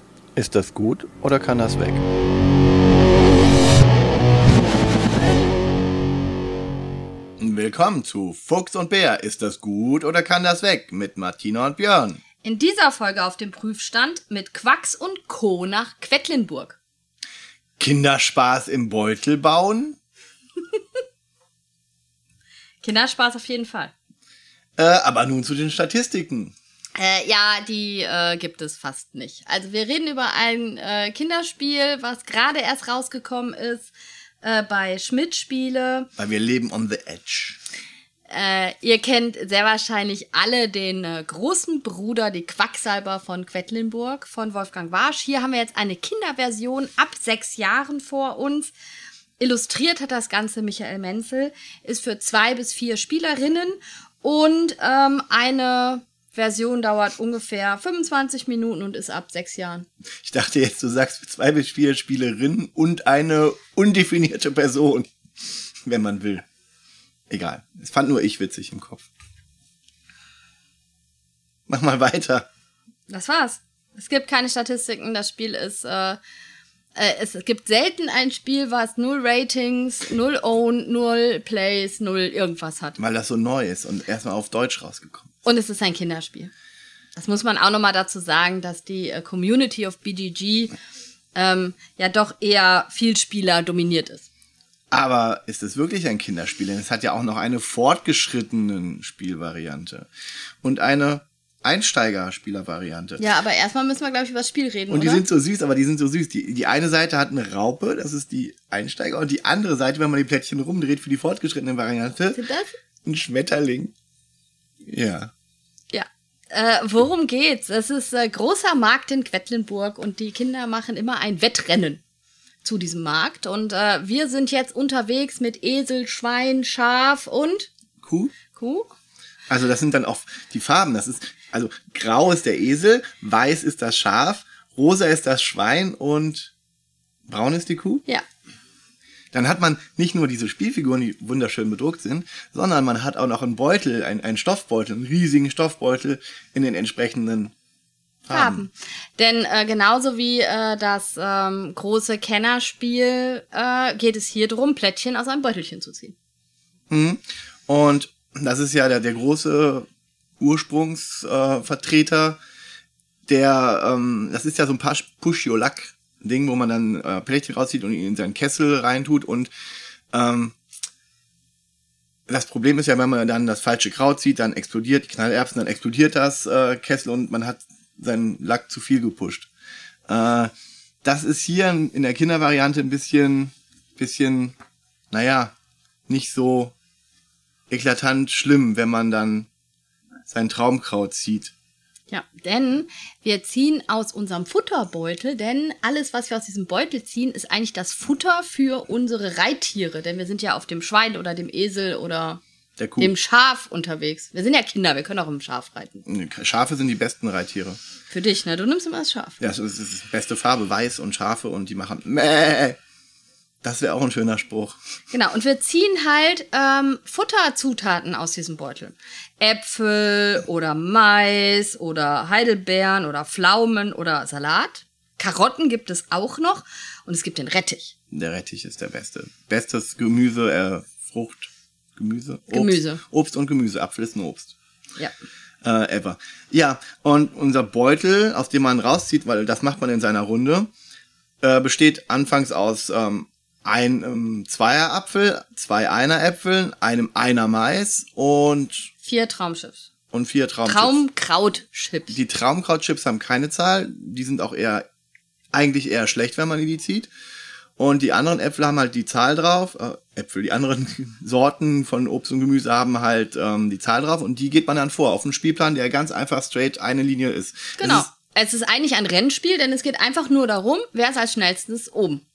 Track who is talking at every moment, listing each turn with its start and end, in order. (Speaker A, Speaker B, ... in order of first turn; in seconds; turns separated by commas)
Speaker A: 0.3-2.0, Speaker A: 7.4-12.2, Speaker B: 12.4-16.8, Speaker A: 17.8-20.0, Speaker B: 22.8-23.9, Speaker A: 24.8-26.5, Speaker B: 27.0-33.9, Speaker B: 34.4-36.1, Speaker A: 36.2-37.6, Speaker B: 38.3-48.7, Speaker B: 49.4-59.9, Speaker A: 60.2-65.1, Speaker A: 65.8-66.4, Speaker A: 67.3-69.1, Speaker A: 71.7-72.5, Speaker B: 73.1-76.2, Speaker B: 76.9-83.0, Speaker A: 83.0-85.3, Speaker B: 85.4-86.5, Speaker B: 87.2-90.7, Speaker B: 91.3-94.2, Speaker A: 94.9-100.1, Speaker A: 100.6-103.3, Speaker B: 103.2-105.2, Speaker A: 104.9-112.4, Speaker B: 112.3-112.7, Speaker A: 113.0-113.9, Speaker A: 114.8-115.3, Speaker B: 115.9-122.0, Speaker B: 122.6-127.7, Speaker A: 128.0-128.3, Speaker B: 128.5-128.9, Speaker A: 129.5-136.5, Speaker A: 137.3-138.0, Speaker A: 139.3-147.5, Speaker A: 148.2-148.7, Speaker B: 148.3-156.1, Speaker A: 156.9-159.8, Speaker A: 160.4-162.4, Speaker A: 163.3-169.5, Speaker A: 170.1-170.6, Speaker A: 172.3-179.5, Speaker A: 180.1-180.5, Speaker A: 181.0-184.5, Speaker A: 185.1-185.5, Speaker A: 186.1-186.7, Speaker A: 187.7-189.5, Speaker A: 190.3-191.5, Speaker B: 192.1-202.4, Speaker A: 202.8-203.1, Speaker B: 203.0-206.0, Speaker A: 206.1-207.8, Speaker B: 208.1-209.4, Speaker A: 209.4-212.8, Speaker A: 213.6-214.8, Speaker B: 215.1-227.9, Speaker A: 228.1-234.5, Speaker B: 232.5-233.0, Speaker A: 235.6-240.7, Speaker A: 241.4-248.9, Speaker B: 249.0-249.9, Speaker A: 250.1-251.0, Speaker B: 250.6-252.2, Speaker A: 252.1-254.8, Speaker A: 255.5-257.1, Speaker A: 257.8-268.1, Speaker B: 267.8-272.2